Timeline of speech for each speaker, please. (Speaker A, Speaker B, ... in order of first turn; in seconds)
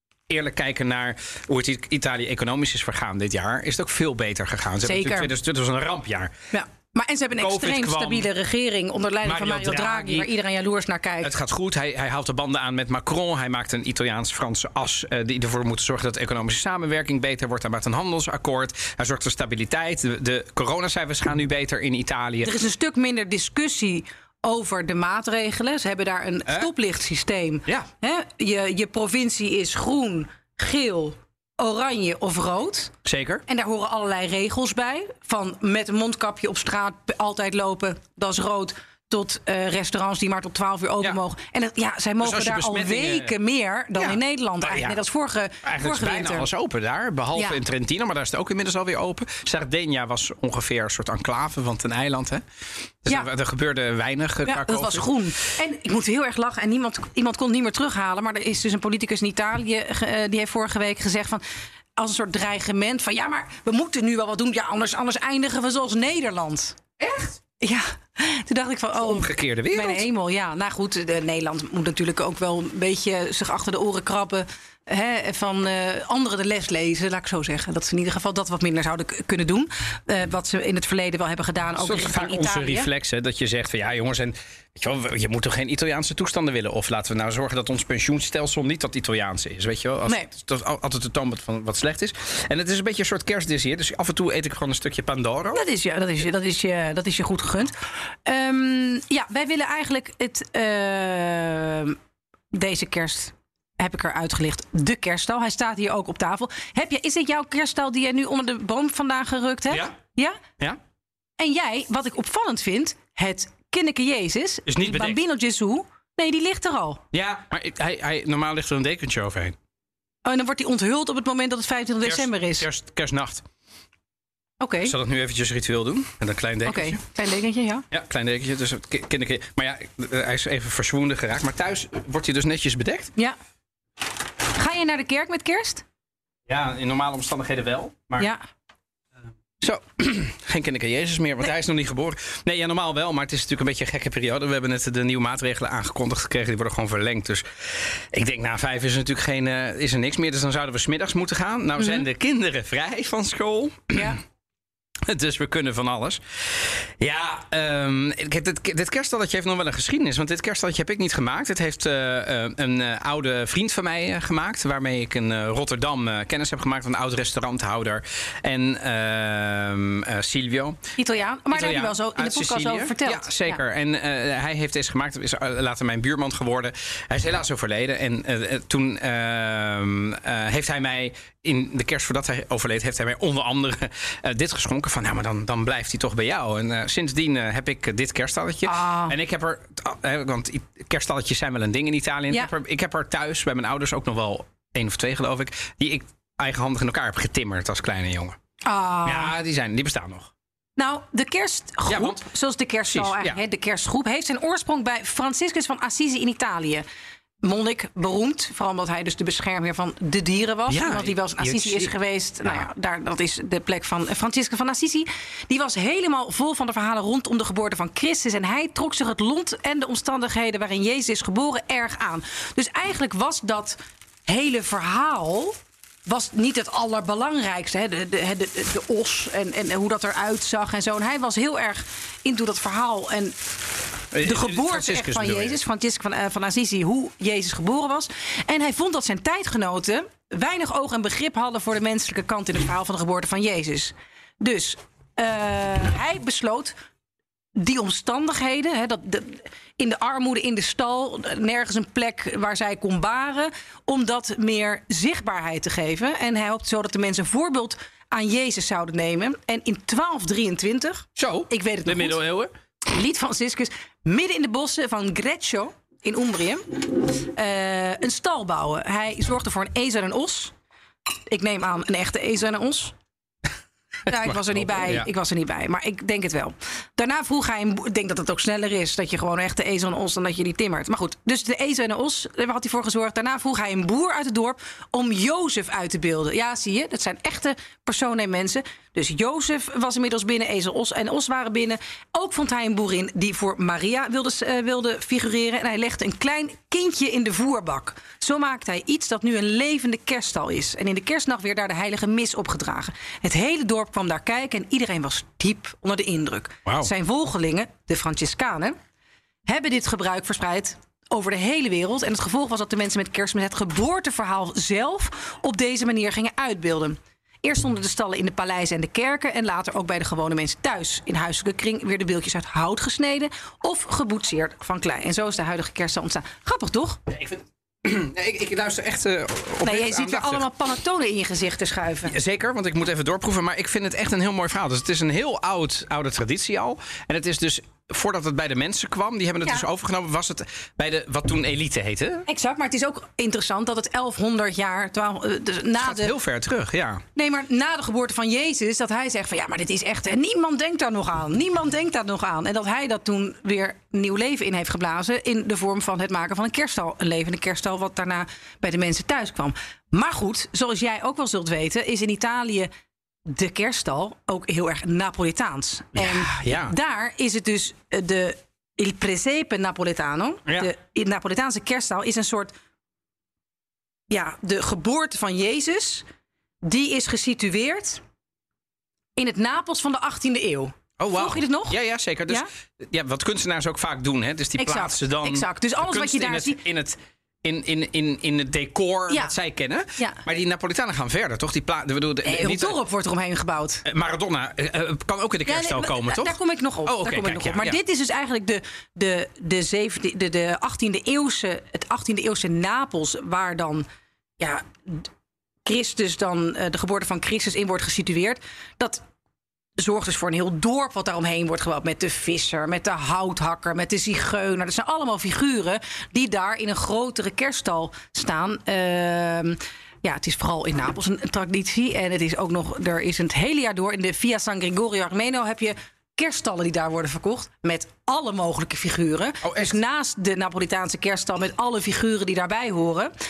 Speaker A: 0.3-6.3, 7.4-8.3, 9.2-10.3, 11.2-22.5, 33.0-33.4, 42.2-43.4, 44.0-45.0, 45.6-52.4, 53.0-55.1, 67.0-67.4, 69.0-70.0, 81.8-95.6, 114.7-115.2, 117.1-119.5, 122.0-123.4, 124.8-127.0, 127.9-133.1, 136.5-138.3, 139.6-154.2, 155.0-170.8, 171.5-198.3, 199.0-200.3, 201.9-202.2, 202.9-203.4, 210.7-211.9, 234.1-235.6, 261.2-262.5, 274.1-275.1, 327.1-330.4, 332.1-342.2, 345.8-347.0, 365.9-366.7, 381.0-392.8, 393.8-397.8, 429.4-429.8
Speaker B: 4.8-5.3, 6.5-11.3, 22.4-32.9, 33.5-46.5, 54.4-61.4, 62.0-66.8, 67.6-82.9, 95.5-102.0, 102.5-110.4, 111.4-117.0, 120.2-122.7, 124.6-124.9, 126.6-127.8, 134.6-135.8, 171.0-173.6, 188.6-189.2, 198.6-199.3, 200.8-206.8, 207.4-233.3, 234.2-246.7, 247.6-262.2, 262.9-270.5, 271.3-272.9, 274.1-308.8, 309.5-327.0, 329.6-332.1, 342.3-346.1, 347.1-362.7, 363.2-372.5, 374.1-376.0, 376.6-378.0, 379.1-381.8, 384.6-386.6, 389.1-389.3, 392.2-393.8, 395.4-403.9, 404.4-405.1, 405.6-409.0, 409.8-433.1